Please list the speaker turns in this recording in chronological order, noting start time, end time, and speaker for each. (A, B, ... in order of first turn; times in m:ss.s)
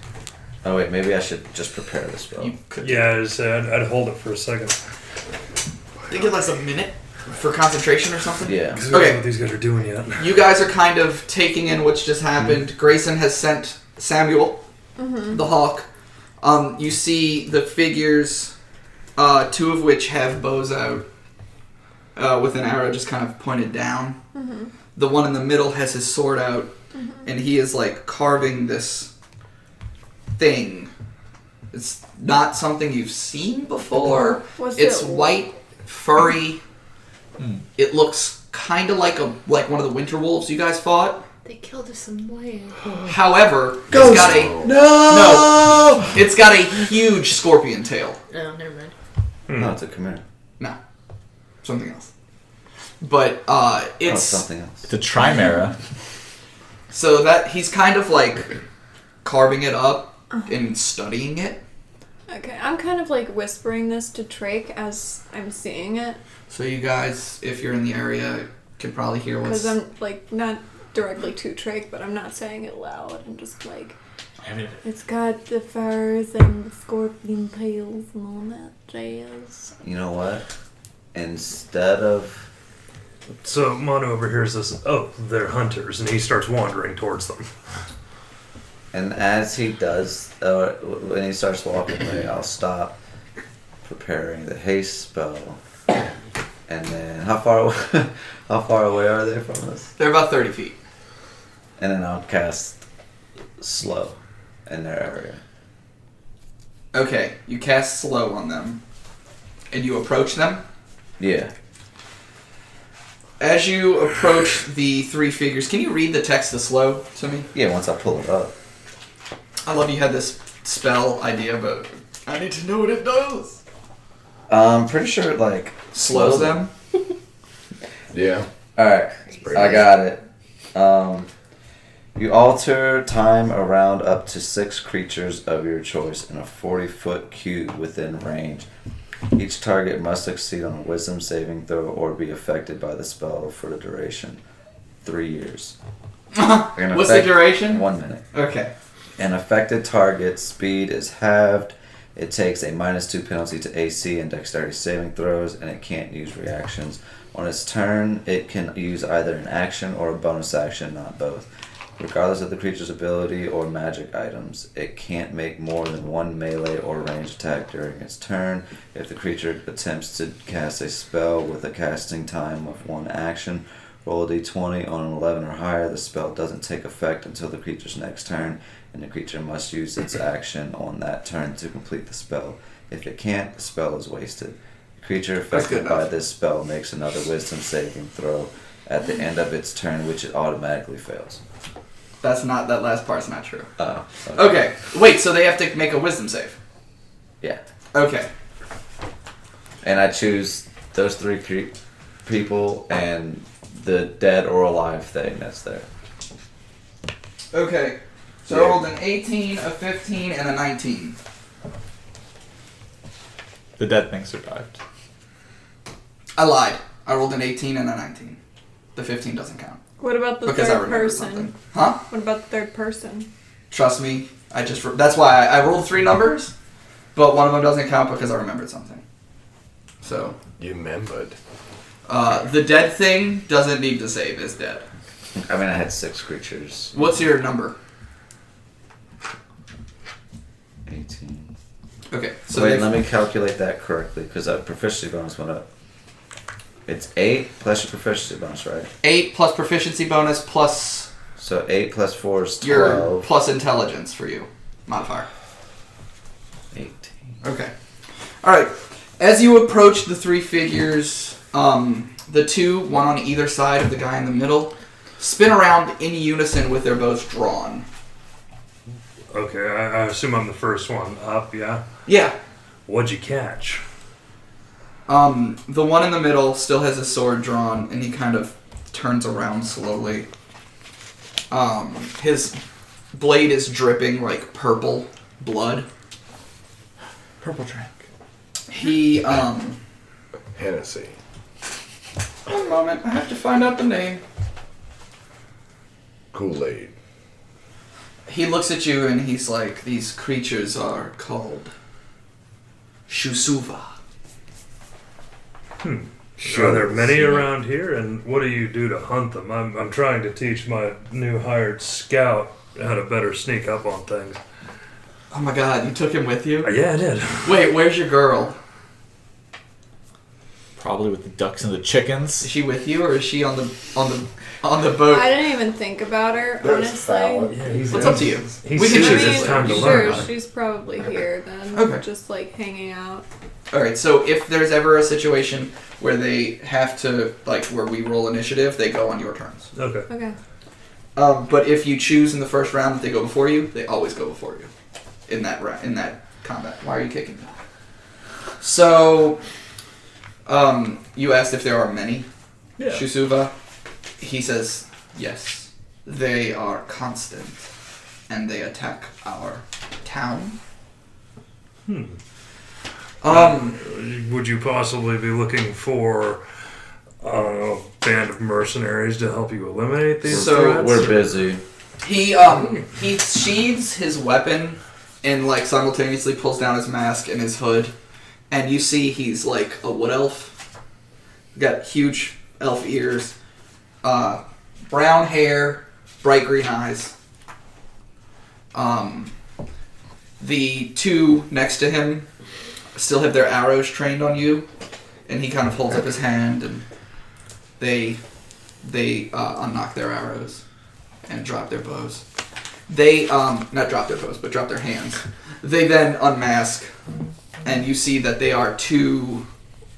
0:00.6-0:02.6 A
0:02.4-0:03.1 B
0:02.8-0:04.8 C
0:06.1-0:09.2 B
0:08.4-0:08.8 A
0:08.8-0:10.3 C
0:10.2-0:14.6 B
0:15.0-0:15.4 D
0:15.3-0:15.9 B
0:16.4-0:18.5 B
0:19.2-0:21.1 B
0:22.2-0:24.2 B
0:24.4-0:24.7 D
0:25.0-0:26.7 B
0:27.2-0:29.1 B
0:30.4-0:30.9 B
0:31.7-0:36.6 B
0:34.6-0:35.4 D
0:37.8-0:41.2 B
0:41.4-0:43.1 E
0:43.1-0:48.2 B
0:43.9-0:44.9 F
0:43.9-0:45.9 A
0:48.3-0:48.9 E
0:49.5-0:49.7 C
0:49.6-0:50.2 A
0:51.6-0:52.1 B
0:53.0-0:54.4 B
0:54.0-0:54.9 A
0:54.9-0:55.8 G
0:56.9-0:58.6 B
0:59.2-1:01.6 B
1:02.3-1:06.2 D
1:06.5-1:09.8 B
1:09.4-1:14.0 D
1:14.4-1:14.8 G
1:14.8-1:19.7 D
1:19.8-1:20.5 A
1:21.1-1:22.5 A
1:23.4-1:27.5 C
1:28.9-1:33.0 A
1:33.8-1:35.6 A
1:36.7-1:39.9 A
1:40.0-1:40.8 B
1:41.8-1:42.8 A
1:43.6-1:45.4 A
1:46.9-1:48.8 B
1:49.7-1:50.6 B
1:51.2-1:51.5 A
1:53.4-1:57.5 B
1:57.5-1:58.5 A
1:59.6-2:03.6 B
2:04.5-2:06.6 A
2:05.9-2:06.7 B
2:08.1-2:08.5 F
2:08.8-2:10.2 A
2:09.4-2:09.8 F
2:10.7-2:11.3 A
2:12.2-2:18.7 A
2:19.3-2:24.4 A
2:25.0-2:25.8 A
2:26.3-2:28.7 B
2:26.7-2:28.2 A
2:29.2-3:11.4 A
3:05.5-3:06.0 B
3:12.2-3:13.7 B
3:13.8-3:14.6 A
3:14.4-3:16.6 B
3:17.9-3:18.3 B
3:19.8-3:25.9 A
3:27.5-3:31.2 B
3:28.5-3:28.8 A
3:33.8-3:34.8 G
3:36.4-3:38.4 B
3:39.0-3:39.8 B
3:40.0-3:43.3 D
3:40.4-3:42.0 B
3:43.7-3:46.5 B
3:47.2-3:49.0 B
3:50.0-3:50.4 B
3:50.6-3:51.4 F
3:52.1-3:54.9 B
3:55.4-3:57.0 A
3:56.9-3:57.8 B
4:00.9-4:01.5 A
4:02.1-4:03.0 B
4:02.5-4:05.7 A
4:06.9-4:08.9 A
4:09.0-4:11.1 B
4:11.4-4:13.3 A
4:12.6-4:15.3 B
4:16.7-4:17.2 A
4:17.4-4:17.7 B
4:18.4-4:27.9 B
4:29.3-4:31.8 C
4:32.1-4:32.4 B
4:32.9-4:33.8 C
4:35.1-4:40.3 B
4:41.5-4:42.6 B
4:43.1-4:45.9 B
4:47.4-4:47.9 G
4:48.7-4:49.8 B
4:50.6-4:51.1 F
4:52.5-4:54.2 B
4:56.3-4:56.9 F
4:58.3-5:01.7 B
5:03.1-5:03.9 B
5:05.8-5:14.4 C
5:06.4-5:07.4 F
5:15.3-5:16.7 B
5:16.6-5:17.6 C
5:17.4-5:18.6 B
5:20.8-5:22.5 G
5:22.4-5:25.3 B
5:25.1-5:27.5 D
5:26.6-5:28.3 F
5:27.5-5:30.3 C
5:27.9-5:30.3 B
5:28.8-5:33.2 D
5:31.7-5:32.0 B
5:33.7-5:39.7 B
5:39.7-5:40.1 C
5:40.1-5:40.4 D
5:41.2-5:44.7 B
5:45.3-5:47.6 B
5:48.6-5:49.4 B
5:50.5-5:52.3 B
5:52.8-5:53.0 G
5:52.9-5:53.5 B
5:54.2-5:57.6 B
5:58.3-6:00.6 B
6:01.9-6:02.2 C
6:03.2-6:03.8 B
6:03.2-6:06.4 C
6:07.2-6:11.2 C
6:10.3-6:11.6 A
6:10.3-6:11.2 B
6:12.0-6:17.9 B
6:18.5-6:20.6 B
6:21.6-6:23.3 B
6:24.0-6:27.1 B
6:28.7-6:29.3 B
6:30.4-6:32.3 B
6:33.0-6:34.7 B
6:35.3-6:36.9 B
6:37.8-6:38.2 B
6:38.8-6:40.6 B
6:41.3-6:42.2 B
6:42.9-6:46.9 B
6:47.6-6:49.5 B